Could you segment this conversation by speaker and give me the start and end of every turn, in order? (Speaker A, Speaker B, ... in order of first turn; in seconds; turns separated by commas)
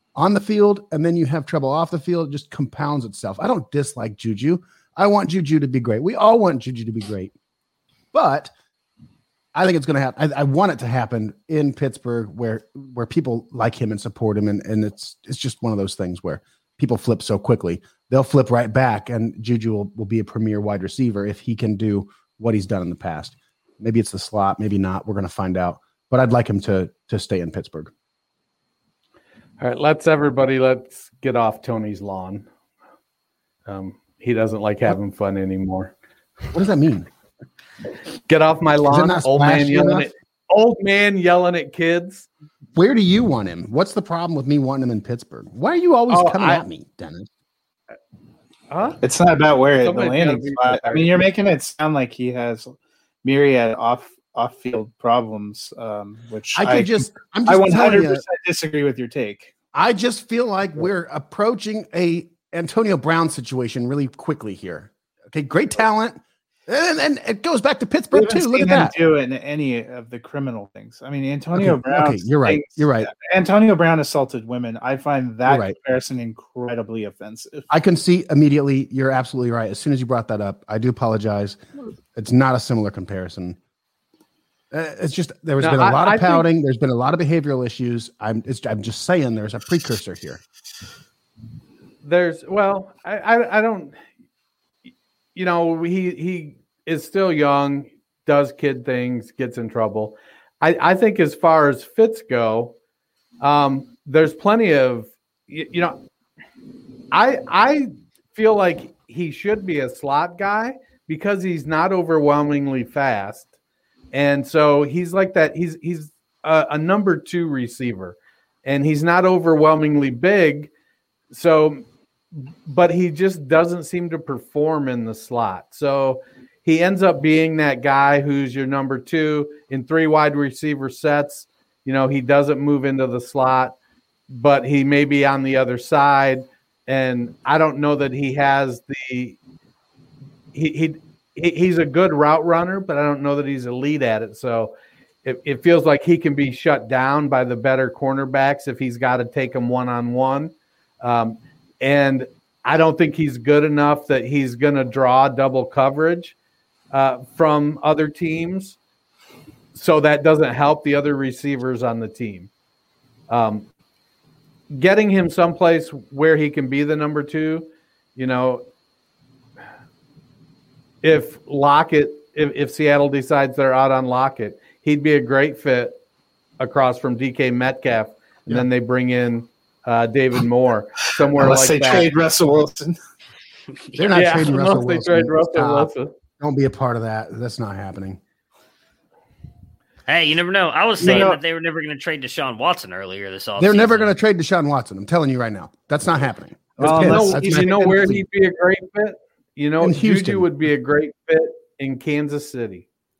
Speaker A: 0.2-7.3, Speaker A: 8.1-8.5, Speaker A: 9.6-27.9, Speaker B: 29.6-32.5, Speaker B: 33.7-35.9, Speaker A: 36.5-37.1, Speaker B: 38.3-42.3, Speaker A: 38.9-40.1, Speaker A: 42.8-47.3, Speaker B: 46.1-46.6, Speaker B: 48.7-49.0, Speaker C: 49.0-59.5, Speaker B: 49.8-51.2, Speaker A: 56.5-58.2, Speaker A: 59.7-68.9, Speaker C: 68.1-77.6, Speaker A: 71.5-73.1, Speaker A: 75.5-75.8, Speaker A: 77.7-81.6, Speaker A: 82.1-83.6, Speaker A: 84.7-90.4, Speaker B: 85.6-86.5, Speaker B: 92.0-94.0, Speaker B: 95.3-102.7, Speaker B: 103.4-106.0, Speaker B: 107.1-113.5, Speaker B: 114.1-120.7, Speaker B: 121.3-133.8, Speaker B: 134.3-139.4, Speaker B: 140.5-144.7, Speaker B: 145.2-156.3, Speaker B: 156.9-158.8, Speaker B: 159.7-162.5, Speaker B: 163.3-163.7, Speaker B: 164.7-168.6, Speaker B: 171.0-175.9, Speaker B: 176.6-182.1, Speaker C: 181.4-183.0, Speaker D: 183.9-184.4, Speaker A: 183.9-188.2, Speaker B: 184.1-186.1, Speaker D: 190.1-194.1, Speaker C: 191.0-191.4, Speaker A: 193.6-198.2, Speaker C: 196.8-198.1, Speaker B: 196.8-202.9, Speaker A: 199.8-200.6